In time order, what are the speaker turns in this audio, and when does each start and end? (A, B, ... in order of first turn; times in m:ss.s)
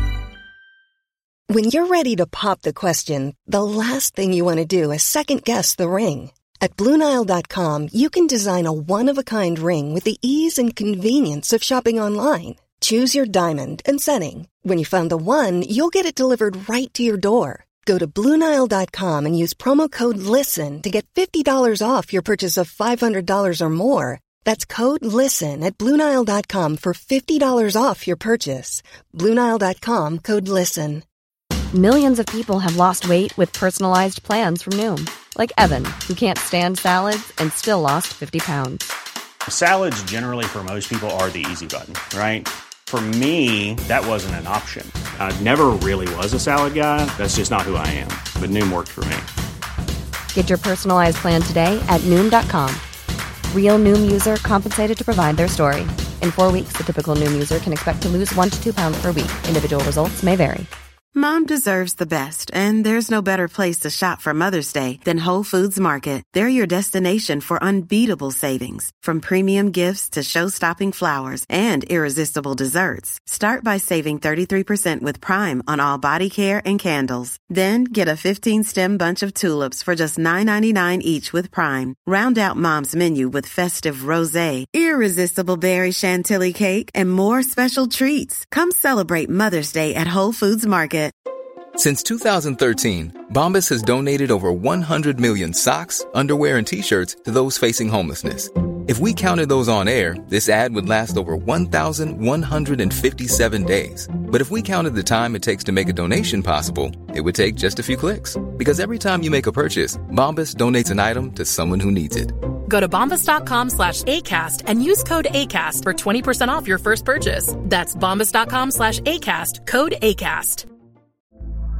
0:01.5-0:31.0 A
0:31.7-0:38.9 B
0:39.5-0:49.3 C
0:50.3-0:52.8 B
0:53.5-1:00.7 B
1:01.1-1:31.1 D
1:31.8-1:52.3 E
1:52.6-2:00.6 F